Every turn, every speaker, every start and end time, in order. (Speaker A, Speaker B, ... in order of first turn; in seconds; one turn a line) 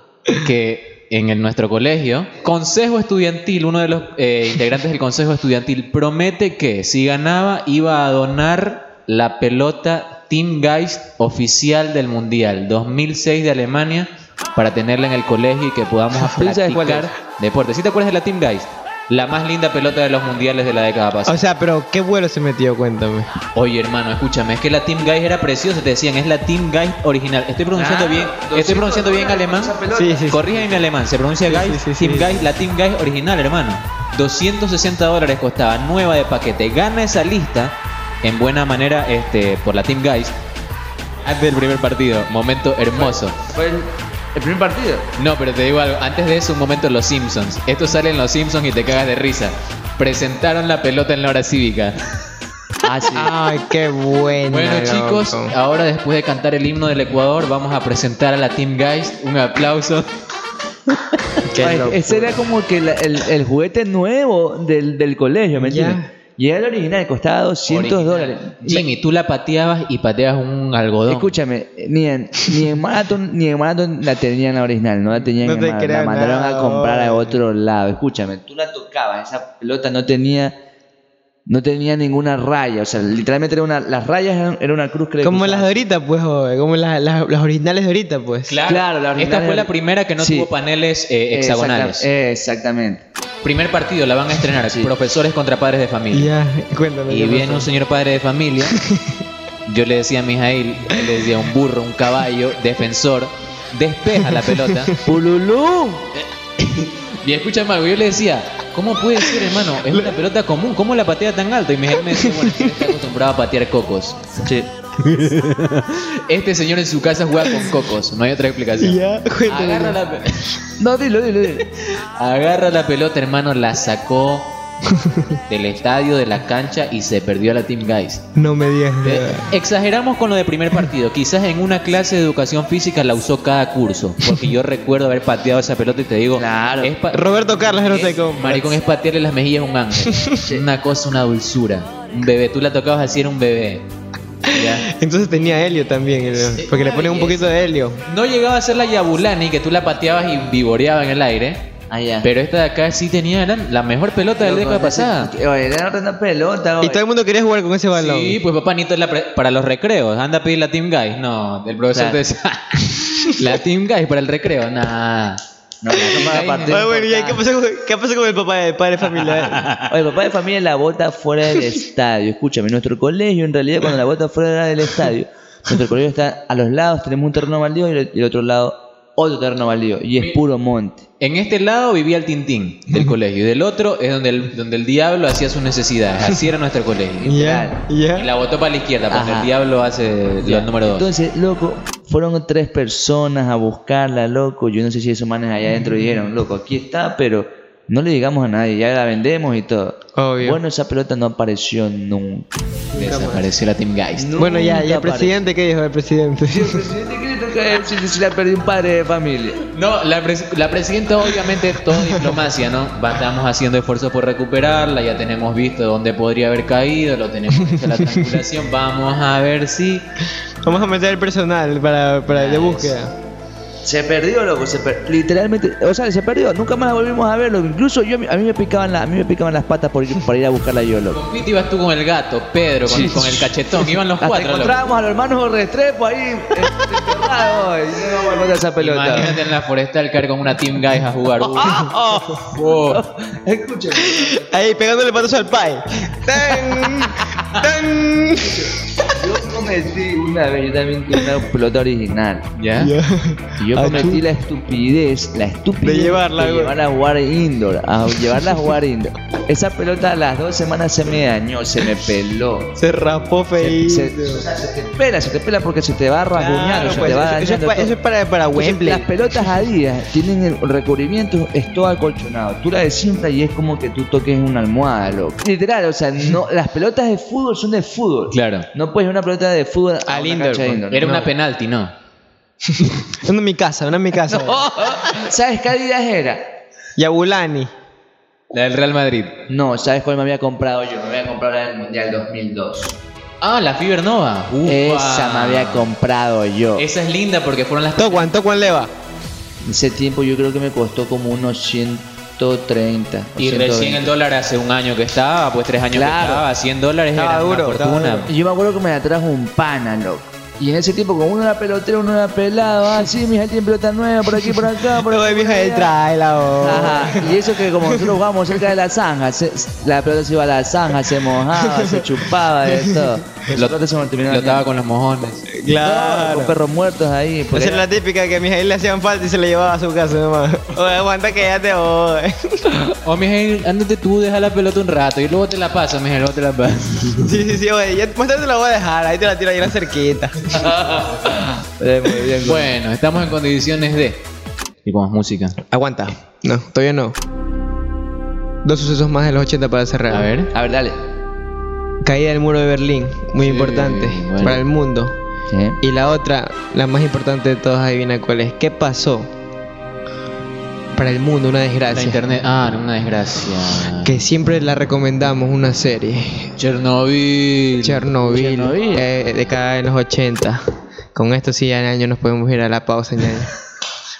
Speaker A: 0.3-21.5
Speaker B: 16.3-17.1
Speaker C: 21.3-23.3
Speaker A: 23.6-29.7
Speaker B: 27.7-30.8
Speaker C: 29.9-30.5
Speaker A: 30.3-40.3
Speaker C: 31.4-32.4
Speaker A: 41.3-43.4
Speaker B: 43.0-45.0
Speaker A: 45.2-52.0
Speaker B: 52.8-53.3
Speaker C: 53.1-55.5
Speaker A: 54.5-60.1
Speaker C: 61.5-62.4
Speaker B: 61.6-68.9
Speaker C: 65.6-66.1
Speaker A: 67.7-71.3
Speaker B: 71.1-80.5
Speaker C: 75.3-77.4
Speaker B: 81.5-85.8
Speaker C: 85.2-88.5
Speaker A: 88.5-92.1
Speaker B: 88.7-90.5
Speaker B: 91.3-93.0
Speaker A: 93.4-96.3
Speaker B: 94.6-94.9
Speaker C: 96.1-97.7
Speaker A: 97.1-98.8
Speaker C: 98.8-99.2
Speaker A: 99.7-104.9
Speaker C: 104.2-104.5
Speaker B: 105.0-106.1
Speaker A: 106.6-114.2
Speaker C: 109.9-110.2
Speaker B: 114.4-114.7
Speaker A: 115.0-120.4
Speaker C: 117.5-117.7
Speaker C: 118.8-120.0
Speaker B: 120.8-121.7
Speaker A: 122.2-124.5
Speaker C: 124.9-125.4
Speaker A: 125.5-128.2
Speaker C: 128.3-129.5
Speaker A: 129.0-137.3
Speaker B: 136.4-136.9
Speaker C: 137.1-138.6
Speaker A: 137.9-143.9
Speaker B: 138.1-138.8
Speaker C: 144.5-148.0
Speaker A: 144.5-144.9
Speaker A: 146.4-151.6
Speaker B: 151.9-152.3
Speaker A: 152.2-155.3
Speaker B: 154.4-157.0
Speaker C: 156.8-158.4
Speaker A: 157.9-165.4
Speaker B: 161.9-162.2
Speaker B: 165.8-167.4
Speaker A: 166.0-166.8
Speaker C: 166.7-169.7
Speaker A: 169.2-169.9
Speaker B: 169.9-181.0
Speaker A: 181.2-187.3
Speaker B: 187.2-187.8
Speaker C: 187.3-188.3
Speaker A: 188.2-191.1
Speaker B: 189.1-189.5
Speaker B: 190.4-202.5
Speaker C: 200.2-200.6
Speaker C: 202.9-203.5
Speaker A: 203.0-204.3
Speaker B: 204.2-205.4
Speaker C: 204.4-206.9
Speaker B: 206.5-209.6
Speaker A: 209.7-220.0
Speaker C: 211.9-212.4
Speaker C: 217.6-218.4
Speaker C: 220.6-223.1
Speaker A: 222.3-223.0
Speaker B: 223.8-231.2
Speaker A: 231.1-234.8
Speaker B: 232.8-233.6
Speaker B: 234.2-239.3
Speaker C: 236.6-237.1
Speaker A: 238.8-241.7
Speaker B: 241.4-244.5
Speaker C: 241.7-242.0
Speaker A: 242.5-243.0
Speaker C: 244.2-248.6
Speaker B: 248.5-252.5
Speaker A: 252.6-252.9
Speaker C: 252.8-254.2
Speaker B: 253.6-262.7
Speaker A: 253.8-254.1
Speaker C: 255.8-256.7
Speaker C: 262.8-264.5
Speaker B: 263.6-268.0
Speaker C: 266.3-269.1
Speaker B: 268.6-281.1
Speaker A: 278.3-278.7
Speaker C: 280.1-281.3
Speaker A: 280.9-281.9
Speaker C: 283.2-284.6
Speaker B: 284.3-286.4
Speaker C: 287.0-287.7
Speaker A: 288.5-289.4
Speaker B: 289.5-293.0
Speaker A: 293.4-295.9
Speaker B: 294.7-296.9
Speaker A: 296.8-298.3
Speaker C: 298.0-298.9
Speaker B: 299.7-304.1
Speaker A: 303.4-308.3
Speaker B: 305.9-306.5
Speaker C: 307.1-308.3
Speaker B: 308.3-315.9
Speaker C: 314.5-318.1
Speaker B: 316.6-324.6
Speaker C: 321.5-323.0
Speaker A: 324.3-325.5
Speaker C: 325.5-326.6
Speaker B: 325.8-327.9
Speaker C: 327.5-332.3
Speaker A: 333.0-337.3
Speaker C: 337.2-340.7
Speaker B: 340.5-342.8
Speaker A: 342.4-344.2
Speaker A: 344.8-345.6
Speaker C: 345.7-347.1
Speaker C: 348.6-350.3
Speaker A: 350.1-350.5
Speaker B: 350.5-351.0
Speaker C: 352.0-355.2
Speaker A: 353.4-354.6
Speaker B: 355.5-355.8
Speaker C: 355.8-359.3
Speaker C: 360.9-362.2
Speaker A: 361.9-364.2
Speaker C: 364.0-366.5
Speaker A: 366.6-368.1
Speaker C: 367.8-370.6
Speaker B: 368.2-369.1
Speaker C: 371.1-373.5